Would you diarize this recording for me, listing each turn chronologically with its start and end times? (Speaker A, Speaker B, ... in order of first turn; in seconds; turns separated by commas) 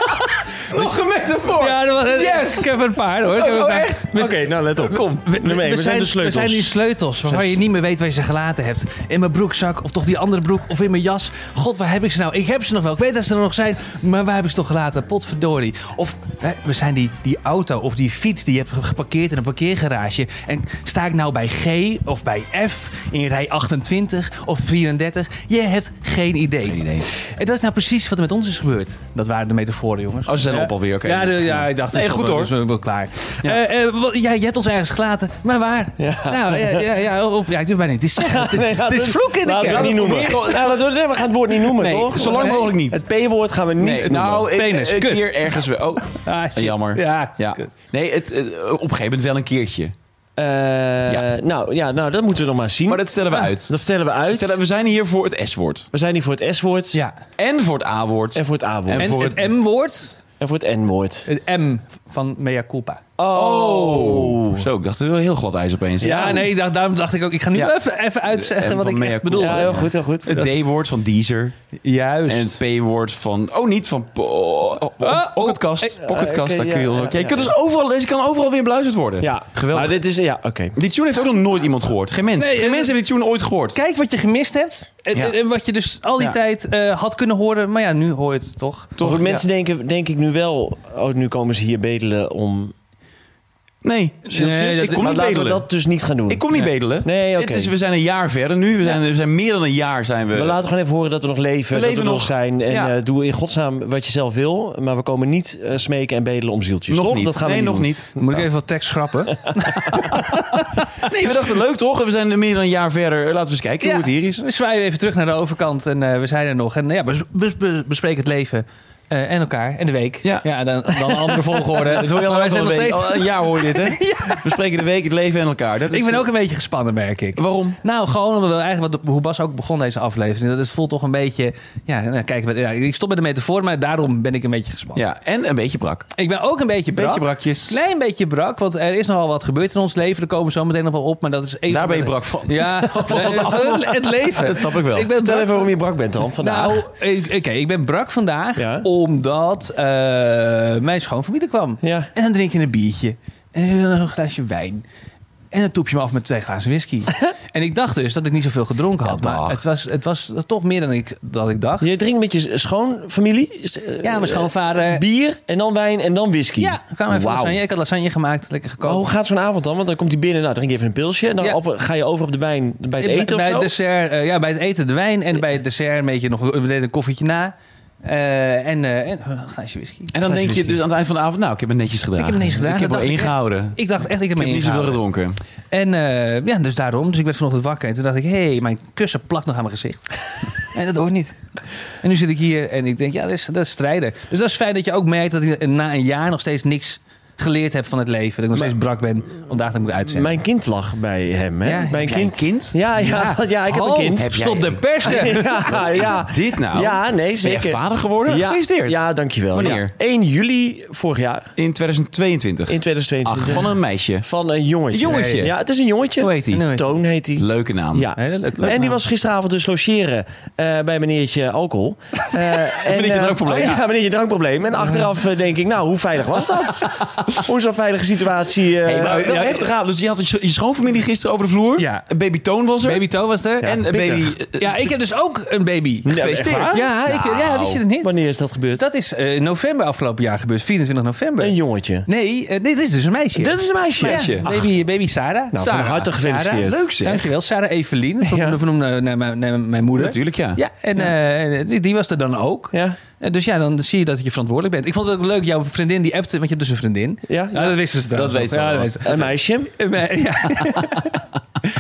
Speaker A: 0.7-2.7, Speaker B: 1.5-40.5, Speaker A: 3.2-4.2, Speaker C: 4.2-6.7, Speaker A: 4.8-5.2, Speaker C: 7.3-7.5, Speaker A: 26.6-27.1, Speaker A: 30.3-32.5, Speaker C: 36.0-36.9, Speaker C: 38.2-44.5, Speaker A: 39.6-40.8, Speaker A: 41.7-43.0, Speaker B: 42.2-42.7, Speaker A: 43.8-49.9, Speaker B: 44.5-47.7, Speaker C: 50.4-54.6, Speaker A: 52.9-53.7, Speaker A: 54.3-55.9, Speaker C: 55.9-57.0, Speaker A: 57.4-59.5, Speaker C: 58.4-59.2, Speaker B: 59.0-60.2, Speaker C: 60.4-61.3, Speaker B: 61.3-63.0, Speaker C: 63.2-64.7, Speaker A: 63.3-66.5, Speaker B: 66.0-69.9, Speaker A: 68.3-71.6, Speaker C: 69.4-70.5, Speaker B: 71.8-72.6, Speaker A: 72.3-80.0, Speaker B: 75.0-76.0, Speaker C: 76.0-77.5, Speaker C: 79.2-80.8, Speaker A: 80.8-83.8, Speaker B: 82.2-83.0, Speaker B: 83.7-89.0, Speaker A: 89.0-89.5, Speaker C: 89.0-92.7, Speaker A: 93.8-95.6, Speaker B: 94.3-95.1, Speaker C: 94.8-97.7, Speaker A: 96.3-100.6, Speaker C: 100.3-107.9, Speaker A: 101.7-102.9, Speaker A: 106.9-108.5, Speaker B: 108.2-111.2, Speaker C: 109.4-110.2, Speaker A: 111.0-114.4, Speaker B: 113.8-124.7, Speaker A: 121.1-126.2, Speaker B: 125.9-135.0, Speaker A: 127.4-127.8, Speaker A: 135.0-136.1, Speaker B: 136.2-145.7, Speaker A: 136.9-137.8, Speaker A: 141.7-145.2, Speaker C: 145.2-146.9, Speaker B: 146.3-154.8, Speaker C: 148.6-148.9, Speaker C: 151.8-152.1, Speaker B: 155.5-161.9, Speaker A: 159.0-159.6, Speaker C: 161.8-167.6, Speaker B: 164.0-165.0, Speaker B: 166.6-169.0, Speaker C: 168.8-173.7, Speaker B: 173.0-180.8, Speaker A: 180.1-183.8, Speaker B: 182.2-185.0, Speaker A: 184.3-185.4, Speaker B: 185.7-191.3, Speaker B: 192.0-200.4, Speaker C: 200.1-204.4, Speaker B: 201.7-202.2, Speaker A: 202.0-202.8, Speaker B: 203.0-206.1, Speaker A: 204.2-209.0, Speaker C: 205.0-211.5, Speaker A: 209.5-209.9, Speaker A: 211.6-214.3, Speaker C: 212.7-229.4, Speaker A: 214.9-215.5, Speaker B: 215.1-215.5, Speaker A: 216.2-216.7, Speaker B: 216.5-216.9, Speaker A: 217.4-218.1, Speaker B: 218.2-219.0, Speaker A: 222.8-223.8, Speaker B: 223.5-223.8, Speaker A: 226.9-227.2, Speaker B: 228.9-229.7, Speaker A: 229.0-233.1, Speaker B: 231.8-232.1, Speaker B: 232.8-234.0, Speaker A: 233.6-234.9, Speaker C: 233.6-234.3, Speaker B: 234.6-238.2, Speaker C: 236.0-236.8, Speaker A: 236.1-237.8, Speaker C: 238.0-238.8, Speaker B: 238.8-261.2, Speaker C: 241.4-242.1, Speaker C: 243.4-244.7, Speaker A: 244.0-244.5, Speaker C: 245.5-246.8, Speaker A: 245.6-247.3, Speaker C: 248.2-248.6, Speaker A: 250.0-250.6, Speaker C: 252.7-253.0, Speaker C: 257.3-257.7, Speaker A: 258.1-259.3, Speaker C: 259.0-259.7, Speaker A: 260.5-261.1